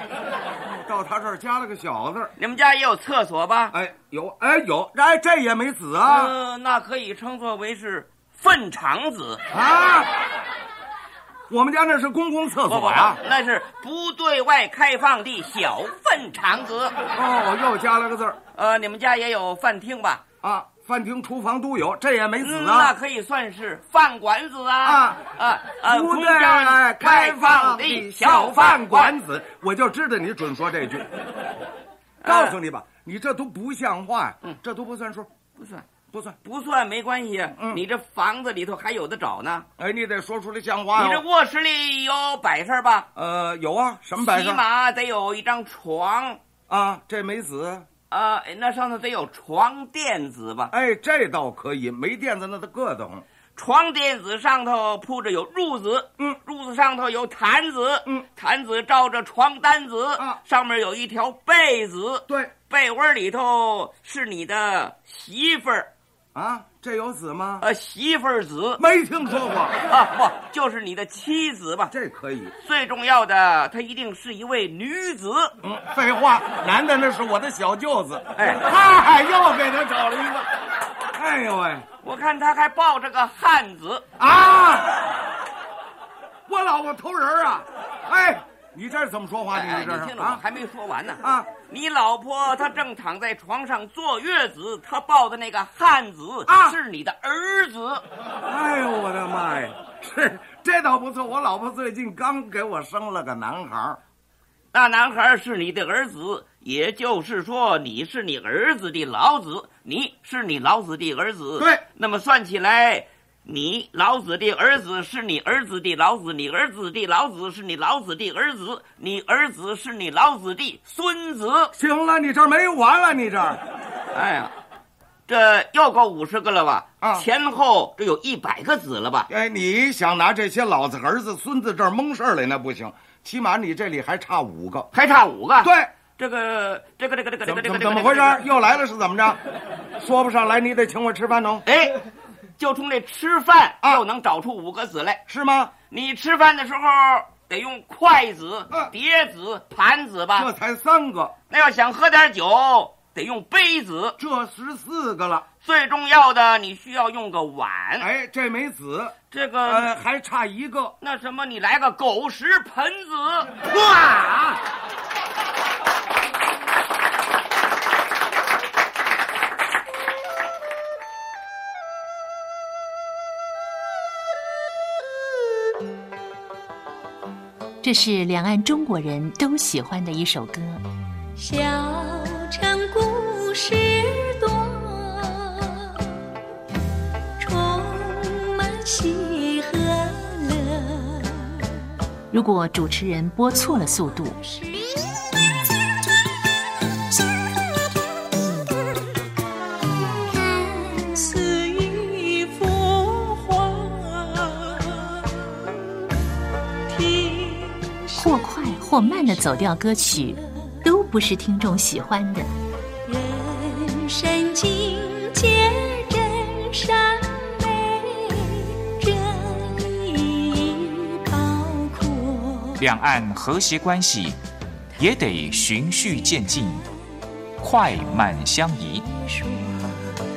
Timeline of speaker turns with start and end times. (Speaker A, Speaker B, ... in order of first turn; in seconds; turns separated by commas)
Speaker A: 0.7-2.3, Speaker B: 2.4-3.7, Speaker A: 3.7-6.3, Speaker B: 6.0-9.4, Speaker A: 9.5-10.1, Speaker A: 11.5-13.2, Speaker B: 12.7-16.9, Speaker A: 17.1-18.4, Speaker B: 18.5-20.2, Speaker A: 20.4-22.9, Speaker B: 22.4-29.1, Speaker A: 24.8-25.2, Speaker A: 25.8-31.1, Speaker B: 32.2-32.5, Speaker A: 32.2-35.3, Speaker B: 35.6-35.9, Speaker A: 36.1-36.4, Speaker B: 36.4-39.6, Speaker A: 39.8-41.2, Speaker B: 40.9-43.1, Speaker A: 43.1-44.6, Speaker B: 44.2-46.4, Speaker A: 46.7-47.9, Speaker B: 48.1-50.7, Speaker A: 50.7-53.2, Speaker B: 53.5-65.9, Speaker A: 62.3-62.5, Speaker A: 66.3-67.7, Speaker B: 67.6-68.8, Speaker A: 68.8-69.8, Speaker B: 69.9-71.9, Speaker A: 71.9-72.5, Speaker B: 72.6-75.5, Speaker A: 75.6-80.4, Speaker B: 78.4-78.6, Speaker A: 81.1-81.8, Speaker B: 82.0-84.0, Speaker A: 84.2-85.0, Speaker A: 86.5-90.4, Speaker B: 89.5-98.0, Speaker A: 91.2-91.5, Speaker A: 96.5-96.8, Speaker A: 98.5-104.0, Speaker B: 104.7-121.7, Speaker A: 121.8-123.6, Speaker B: 124.1-124.5, Speaker B: 125.3-129.3, Speaker A: 129.3-134.9, Speaker B: 134.9-138.4, Speaker A: 135.6-135.9, Speaker A: 137.4-139.4, Speaker A: 140.0-141.7, Speaker B: 141.7-142.0, Speaker B: 142.6-145.2, Speaker A: 145.3-145.7, Speaker B: 145.9-150.5, Speaker A: 150.3-151.3, Speaker B: 151.5-154.2, Speaker A: 154.2-155.4, Speaker B: 155.6-158.1, Speaker A: 158.0-160.9, Speaker B: 159.3-159.9, Speaker B: 161.0-163.6, Speaker A: 163.6-164.6, Speaker C: 177.8-180.8, Speaker D: 181.4-186.1, Speaker D: 187.4-191.6, Speaker C: 192.3-194.4, Speaker D: 194.3-194.7, Speaker D: 200.4-205.8, Speaker D: 206.9-208.4, Speaker C: 208.2-212.5, Speaker D: 213.1-222.8, Speaker E: 222.8-224.4, Speaker E: 225.0-226.8, Speaker E: 227.6-229.0, Speaker D: 229.1-230.1